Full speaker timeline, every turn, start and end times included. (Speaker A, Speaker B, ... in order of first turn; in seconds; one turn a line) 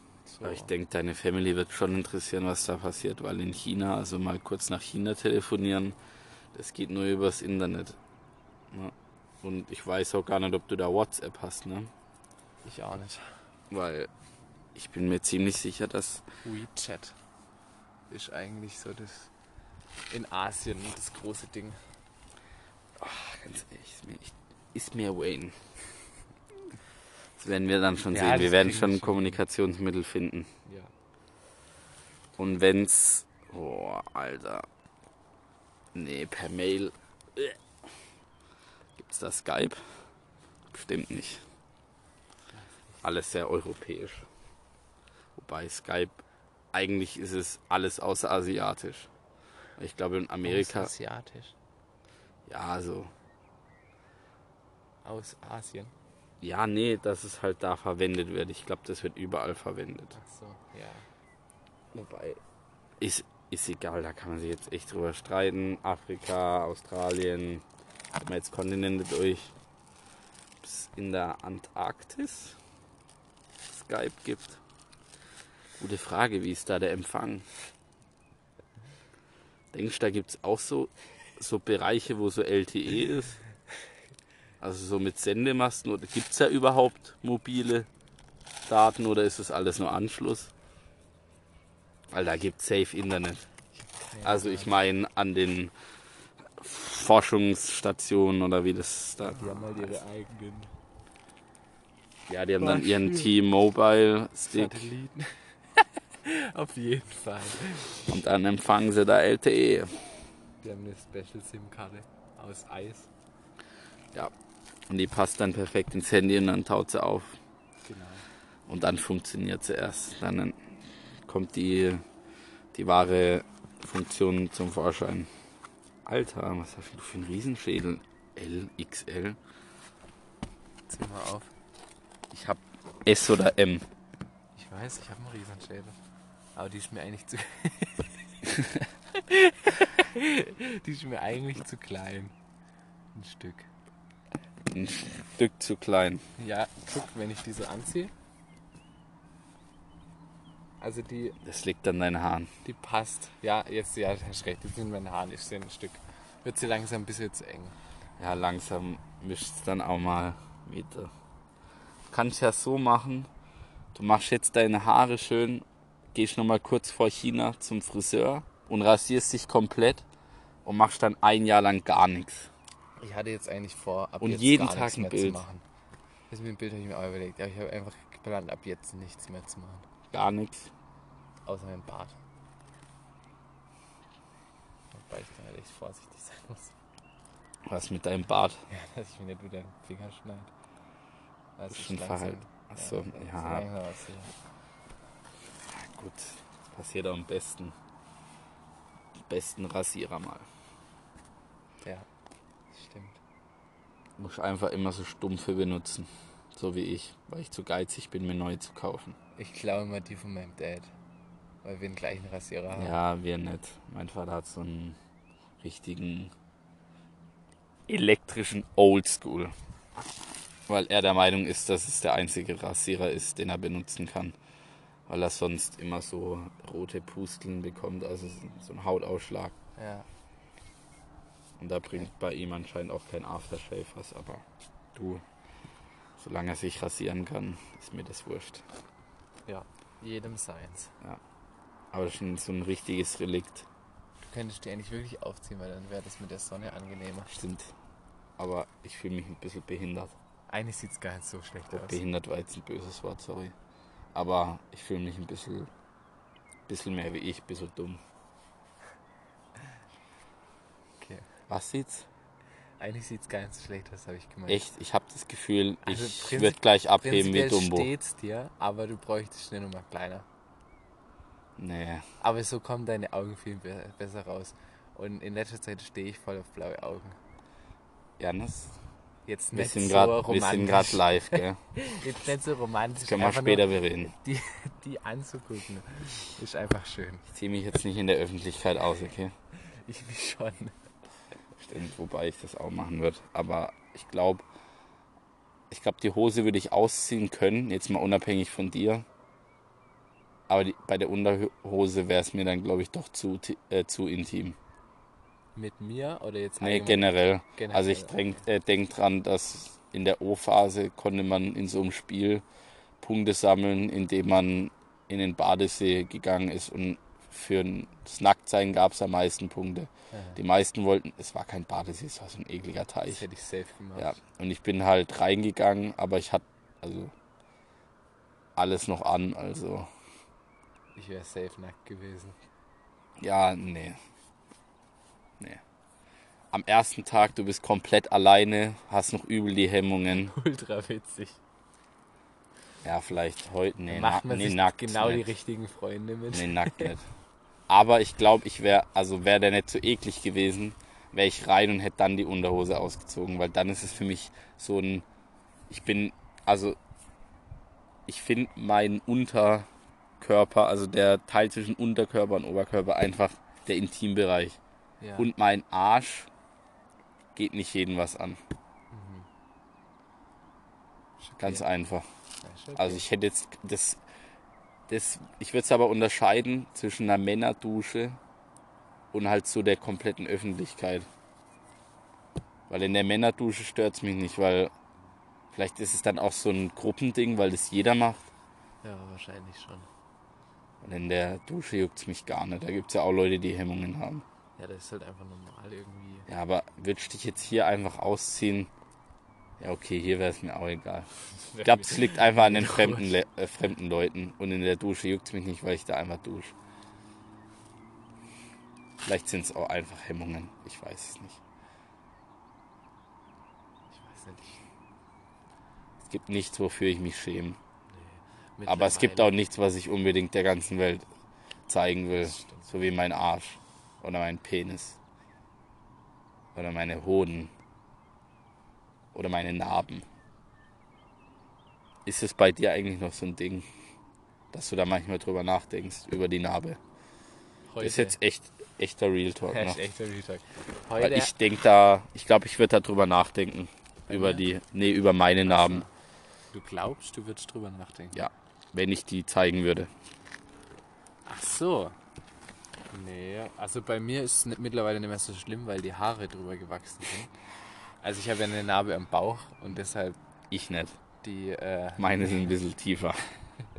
Speaker A: 0.2-0.7
Speaker B: 0.4-6.0
Speaker B: 6.5-8.0
Speaker B: 8.7-11.9
Speaker A: 12.6-13.3
Speaker B: 13.7-14.1
Speaker B: 14.7-16.2
Speaker A: 16.4-17.1
Speaker A: 18.1-19.3
Speaker A: 20.1-21.8
Speaker B: 23.0-25.6
Speaker B: 27.4-30.5
Speaker A: 28.1-29.4
Speaker A: 30.6-30.9
Speaker B: 32.4-34.7
Speaker B: 35.9-37.6
Speaker B: 39.0-39.8
Speaker B: 40.7-41.4
Speaker A: 42.5-43.0
Speaker B: 43.0-44.3
Speaker B: 45.4-46.2
Speaker B: 46.7-49.1
Speaker B: 49.8-50.9
Speaker A: 50.4-51.5
Speaker B: 52.5-53.1
Speaker A: 55.0-55.9
Speaker B: 56.4-60.2
Speaker A: 60.1-61.1
Speaker B: 61.9-62.4
Speaker B: 63.0-67.6
Speaker B: 68.2-69.5
Speaker B: 70.6-72.6
Speaker B: 73.7-74.6
Speaker B: 75.8-77.5
Speaker B: 79.7-83.4
Speaker B: 84.6-87.9
Speaker B: 88.7-90.5
Speaker B: 92.1-93.4
Speaker A: 93.8-94.7
Speaker B: 94.2-95.7
Speaker B: 96.6-100.0
Speaker A: 99.2-100.7
Speaker B: 102.3-104.9
Speaker A: 102.6-103.3
Speaker A: 104.5-108.1
Speaker B: 108.1-110.0
Speaker A: 110.6-113.1
Speaker B: 114.9-117.4
Speaker A: 117.8-118.2
Speaker B: 118.7-120.6
Speaker B: 121.2-122.0
Speaker B: 122.7-125.3
Speaker B: 126.0-129.4
Speaker A: 130.9-131.5
Speaker B: 132.3-133.9
Speaker A: 134.6-135.9
Speaker A: 136.6-138.1
Speaker A: 139.1-142.3
Speaker A: 143.1-143.7
Speaker B: 144.7-146.2
Speaker A: 146.4-148.1
Speaker A: 150.8-151.4
Speaker B: 151.4-152.5
Speaker A: 152.6-157.8
Speaker B: 158.2-161.1
Speaker B: 162.1-163.3
Speaker B: 163.9-170.1
Speaker B: 170.6-172.5
Speaker A: 173.0-175.6
Speaker B: 174.2-175.4
Speaker A: 176.3-179.8
Speaker B: 180.1-180.7
Speaker A: 181.4-182.2
Speaker A: 184.9-186.7
Speaker B: 187.7-188.6
Speaker A: 188.7-190.5
Speaker A: 191.6-194.3
Speaker B: 191.7-193.7
Speaker B: 195.7-197.7
Speaker B: 199.2-200.4
Speaker A: 202.7-203.2
Speaker B: 204.2-209.2
Speaker A: 209.3-210.9
Speaker A: 211.6-212.9
Speaker B: 212.7-215.0
Speaker B: 215.6-216.3
Speaker B: 217.9-219.5
Speaker B: 220.7-224.3
Speaker B: 225.1-229.5
Speaker A: 229.8-230.1
Speaker B: 231.6-234.4
Speaker B: 234.9-235.2
Speaker B: 236.2-238.6
Speaker A: 239.5-240.9
Speaker B: 241.9-243.7
Speaker A: 244.2-247.3
Speaker B: 247.3-247.7
Speaker B: 248.4-250.1
Speaker A: 250.5-252.0
Speaker B: 251.7-253.5
Speaker B: 254.1-255.7
Speaker B: 256.7-258.0
Speaker A: 261.0-261.3
Speaker B: 261.5-262.1
Speaker A: 262.8-264.6
Speaker B: 264.5-267.9
Speaker A: 265.8-270.2
Speaker B: 271.6-272.0
Speaker A: 272.2-277.2
Speaker B: 278.2-278.8
Speaker A: 279.2-287.2
Speaker B: 279.5-281.6
Speaker B: 283.0-284.1
Speaker B: 287.3-289.3
Speaker A: 289.6-290.7
Speaker B: 291.6-294.4
Speaker B: 295.7-299.1
Speaker B: 300.5-304.6
Speaker A: 305.6-308.4
Speaker B: 306.6-312.4
Speaker B: 313.0-323.2
Speaker A: 320.1-320.4
Speaker A: 323.1-324.1
Speaker B: 323.9-327.1
Speaker B: 328.6-329.9
Speaker A: 330.9-332.4
Speaker B: 333.2-334.0
Speaker B: 336.5-340.3
Speaker A: 340.2-341.4
Speaker B: 342.8-345.3
Speaker A: 343.9-346.9
Speaker B: 346.3-347.1
Speaker B: 347.7-355.1
Speaker B: 355.7-356.8
Speaker B: 358.1-359.7
Speaker B: 360.2-364.6
Speaker A: 365.0-365.3
Speaker B: 365.2-366.3
Speaker B: 367.3-368.4
Speaker A: 368.9-369.3
Speaker A: 371.2-371.6
Speaker B: 371.4-372.1
Speaker A: 372.4-373.0
Speaker B: 372.8-374.0
Speaker B: 374.9-378.2
Speaker B: 379.1-381.1
Speaker B: 382.7-384.7
Speaker B: 385.5-388.3
Speaker A: 388.8-389.9
Speaker B: 390.8-394.2
Speaker A: 394.6-396.3
Speaker B: 396.3-398.7
Speaker B: 399.6-401.1
Speaker A: 401.4-403.2
Speaker B: 401.6-406.5
Speaker B: 409.0-411.4
Speaker A: 413.9-414.6
Speaker B: 416.0-417.6
Speaker A: 417.9-419.4
Speaker B: 418.7-421.1
Speaker B: 421.7-425.0
Speaker A: 422.2-422.7
Speaker B: 426.5-427.5
Speaker B: 429.1-430.1
Speaker B: 432.1-433.6
Speaker B: 434.5-436.8
Speaker A: 437.7-438.2
Speaker B: 437.8-439.8
Speaker A: 439.4-441.3
Speaker B: 441.0-445.9
Speaker A: 444.1-444.4
Speaker A: 445.4-445.9
Speaker A: 446.5-448.3
Speaker B: 448.1-449.9
Speaker A: 451.2-451.9
Speaker A: 452.9-457.3
Speaker A: 458.0-460.2
Speaker B: 460.5-461.0
Speaker A: 461.2-462.5
Speaker B: 462.0-463.2